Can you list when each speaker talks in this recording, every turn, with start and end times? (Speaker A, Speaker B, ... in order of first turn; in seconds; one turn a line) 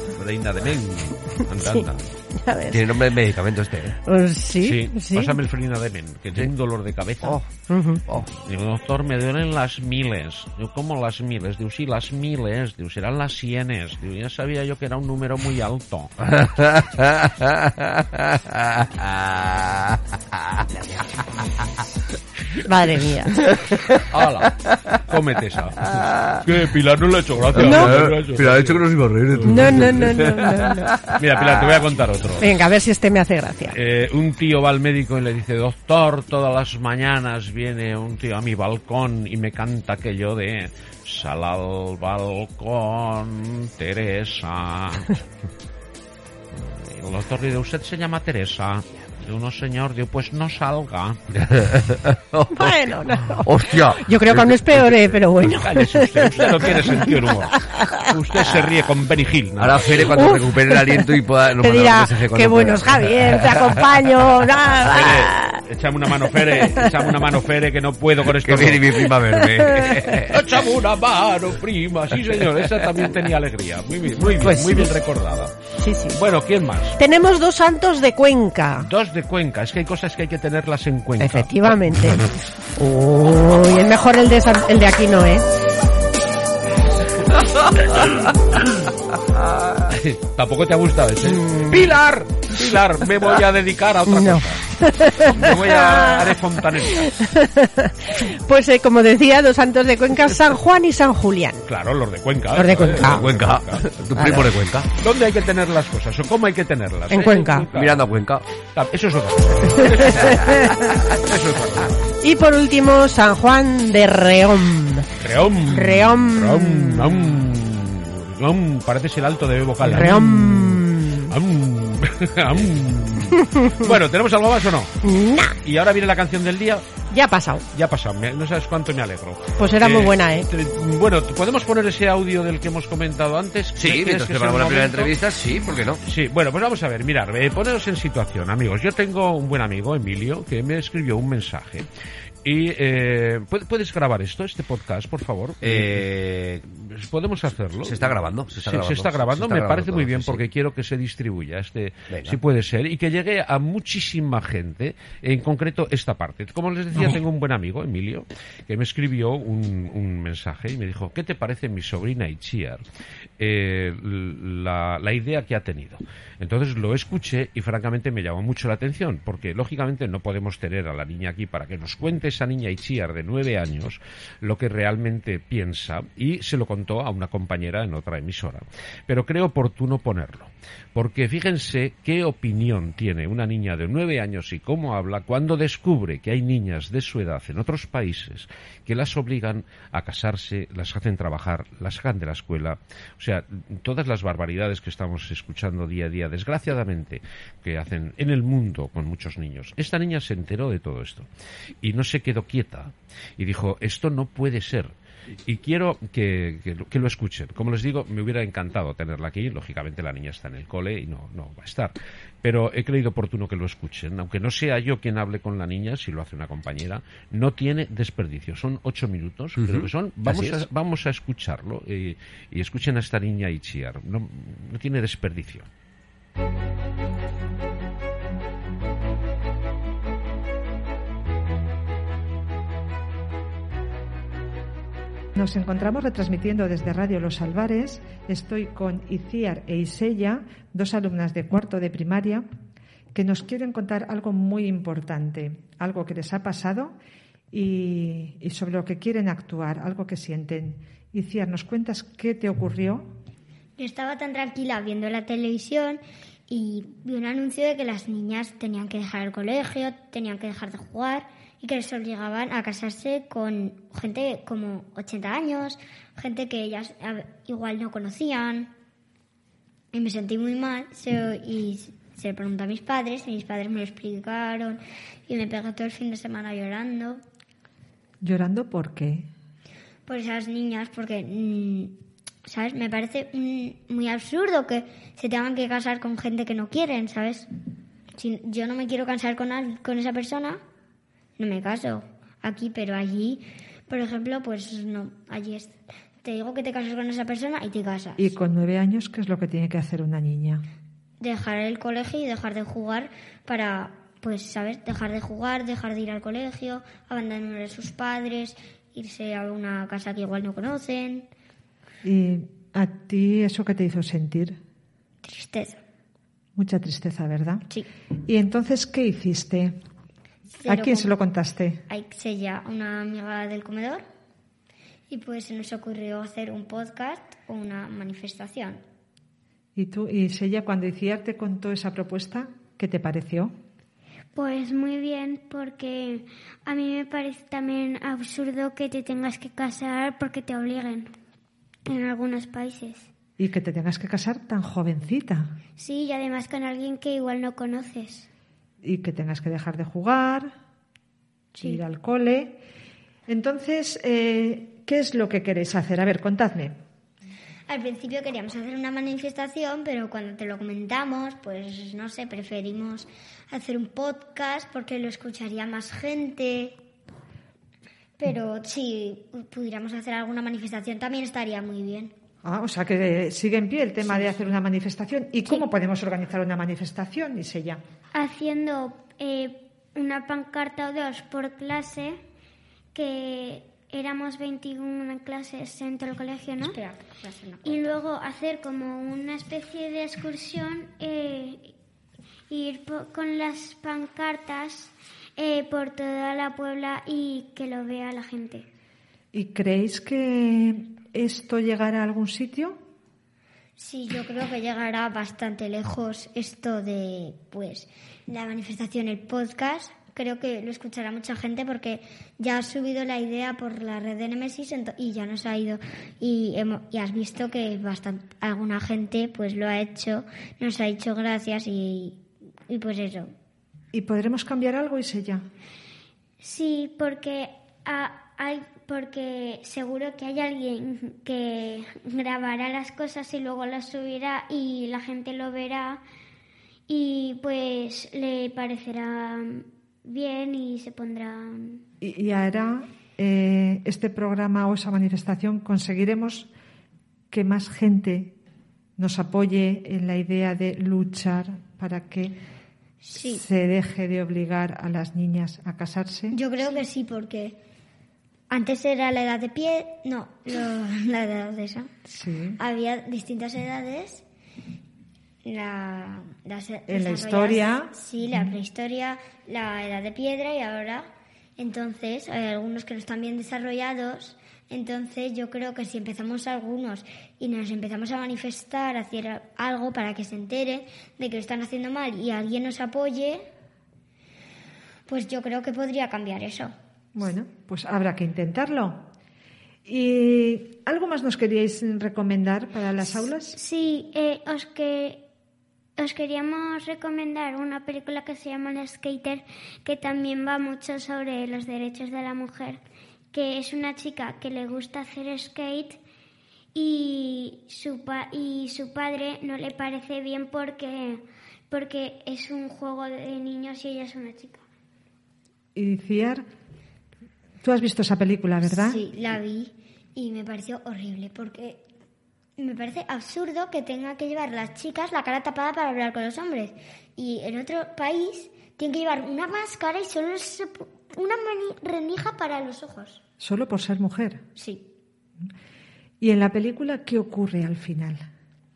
Speaker A: 0.2-2.1
Speaker B: 2.4-2.8
Speaker C: 2.7-4.0
Speaker B: 4.1-5.4
Speaker A: 4.6-7.4
Speaker B: 7.2-8.0
Speaker A: 8.1-16.1
Speaker C: 16.3-21.1
Speaker B: 22.6-23.4
Speaker C: 23.5-24.9
Speaker A: 24.1-30.2
Speaker C: 25.9-26.4
Speaker C: 27.5-31.8
Speaker B: 27.6-27.9
Speaker B: 29.4-30.9
Speaker A: 31.2-32.6
Speaker B: 32.4-33.8
Speaker A: 33.7-45.2
Speaker A: 46.5-51.2
Speaker C: 51.4-54.6
Speaker B: 52.5-58.1
Speaker A: 54.9-60.3
Speaker C: 59.6-63.7
Speaker B: 60.1-61.1
Speaker B: 61.6-65.6
Speaker A: 64.9-69.1
Speaker C: 68.3-70.4
Speaker B: 69.4-70.1
Speaker A: 70.2-75.5
Speaker C: 72.5-73.1
Speaker B: 74.4-74.9
Speaker B: 75.8-76.2
Speaker A: 76.1-77.0
Speaker B: 77.0-78.9
Speaker A: 78.8-81.5
Speaker B: 81.2-85.5
Speaker A: 89.9-97.2
Speaker B: 91.3-91.8
Speaker B: 94.1-96.4
Speaker B: 96.9-101.6
Speaker A: 101.6-108.0
Speaker B: 102.5-103.3
Speaker C: 103.0-104.9
Speaker B: 107.1-107.7
Speaker C: 107.8-108.5
Speaker A: 108.7-112.0
Speaker B: 109.8-110.9
Speaker B: 112.2-115.1
Speaker A: 115.2-124.9
Speaker B: 115.7-117.3
Speaker B: 119.8-121.3
Speaker B: 123.3-123.9
Speaker B: 125.0-125.6
Speaker A: 125.6-126.9
Speaker B: 127.1-127.6
Speaker A: 127.7-135.1
Speaker B: 129.6-130.5
Speaker C: 133.8-136.0
Speaker A: 136.1-141.9
Speaker A: 142.4-162.8
Speaker C: 145.6-146.6
Speaker C: 147.8-150.4
Speaker C: 152.1-152.4
Speaker A: 163.4-201.3
Speaker A: 201.8-204.9
Speaker A: 205.5-225.7
Speaker C: 219.6-220.7
Speaker D: 235.3-242.5
Speaker D: 243.1-247.0
Speaker D: 247.5-253.1
Speaker E: 253.8-268.7
Speaker E: 269.9-277.2
Speaker D: 278.2-279.3
Speaker E: 280.1-287.5
Speaker E: 288.2-290.6
Speaker E: 291.4-298.3
Speaker D: 298.2-300.6
Speaker E: 301.2-311.3
Speaker D: 312.0-314.6
Speaker E: 315.2-315.8
Speaker D: 316.6-317.6
Speaker D: 318.3-319.8
Speaker E: 320.6-321.2
Speaker D: 320.7-321.8
Speaker E: 321.9-324.1
Speaker E: 325.1-328.8
Speaker D: 329.8-333.5
Speaker F: 334.3-341.1
Speaker F: 341.9-343.1
Speaker D: 343.4-345.5
Speaker F: 345.8-348.3
Speaker D: 348.8-350.5
Speaker D: 351.5-352.6
Speaker D: 353.3-356.8
Speaker E: 357.7-366.8
Speaker E: 368.2-372.1
Speaker D: 372.4-377.8
Speaker F: 378.1-382.2
Speaker F: 382.9-386.8
Speaker E: 386.6-387.9
Speaker F: 387.6-391.7
Speaker F: 392.5-398.6
Speaker D: 399.3-402.8
Speaker E: 403.8-423.3
Speaker D: 423.9-425.4
Speaker F: 426.4-436.0
Speaker F: 436.9-441.8
Speaker D: 442.0-446.5
Speaker D: 447.3-448.4
Speaker D: 449.0-452.4
Speaker E: 453.0-453.4
Speaker D: 453.2-456.4
Speaker E: 456.3-457.6
Speaker E: 458.5-461.9
Speaker D: 462.1-462.6
Speaker E: 462.6-464.2
Speaker E: 465.4-483.5
Speaker D: 466.9-468.6
Speaker E: 485.1-486.7
Speaker D: 487.1-489.1
Speaker D: 489.9-493.6
Speaker F: 493.5-495.2
Speaker F: 496.0-502.8
Speaker F: 503.3-506.0
Speaker F: 506.7-514.6
Speaker D: 515.8-516.4
Speaker D: 517.6-519.0
Speaker E: 518.7-521.8
Speaker E: 522.6-533.2
Speaker D: 533.4-534.4
Speaker E: 534.6-534.9
Speaker D: 536.2-538.3